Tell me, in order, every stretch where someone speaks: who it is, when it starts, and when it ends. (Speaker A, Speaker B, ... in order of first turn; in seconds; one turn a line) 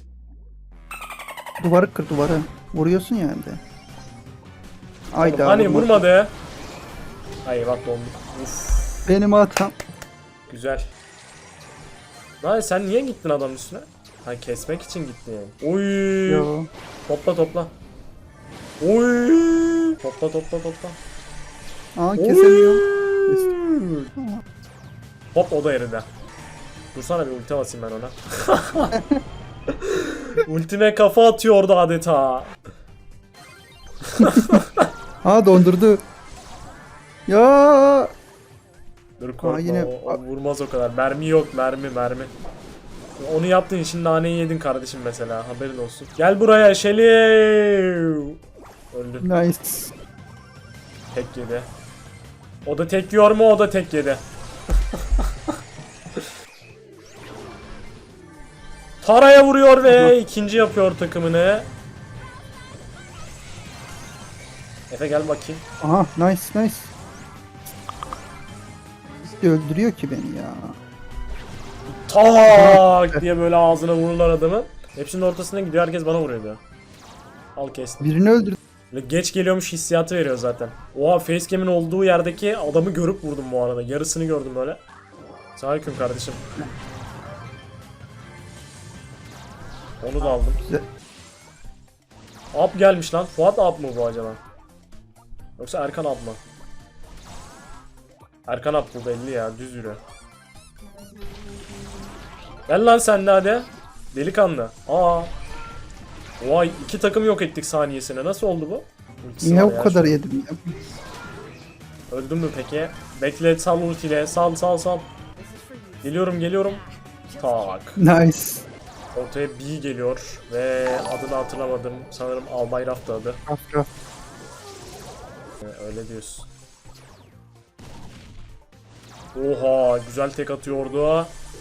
Speaker A: 1.6-3.6
Speaker A: 5.1-6.0
Speaker B: 5.2-6.3
Speaker B: 7.5-9.1
Speaker A: 9.1-9.8
Speaker B: 10.5-10.9
Speaker B: 12.4-16.5
Speaker A: 16.3-16.7
Speaker B: 17.1-17.7
Speaker B: 18.8-21.0
Speaker A: 22.0-23.5
Speaker B: 22.2-24.1
Speaker A: 24.2-24.4
Speaker B: 25.3-26.1
Speaker B: 26.9-29.0
Speaker A: 28.9-29.2
Speaker B: 29.7-32.6
Speaker B: 34.1-34.9
Speaker A: 34.2-34.6
Speaker A: 35.2-36.0
Speaker A: 37.3-38.1
Speaker B: 39.2-42.3
Speaker A: 39.4-40.2
Speaker B: 43.2-48.4
Speaker B: 48.9-49.3
Speaker A: 49.2-49.9
Speaker B: 51.1-51.7
Speaker B: 52.6-54.2
Speaker B: 54.9-55.3
Speaker B: 59.0-61.7
Speaker A: 59.8-60.1
Speaker B: 64.9-65.6
Speaker A: 65.8-66.9
Speaker A: 69.2-70.8
Speaker B: 71.9-76.6
Speaker A: 72.5-73.2
Speaker B: 77.6-78.1
Speaker A: 78.0-78.6
Speaker B: 78.9-84.8
Speaker B: 85.6-86.4
Speaker B: 90.0-90.6
Speaker B: 92.5-94.4
Speaker B: 95.6-96.4
Speaker B: 98.5-100.0
Speaker B: 102.7-105.3
Speaker B: 106.4-110.2
Speaker A: 109.4-110.8
Speaker B: 112.1-115.1
Speaker B: 116.0-118.0
Speaker A: 118.0-118.7
Speaker B: 119.2-123.4
Speaker A: 123.5-123.9
Speaker B: 125.6-126.5
Speaker B: 129.3-131.3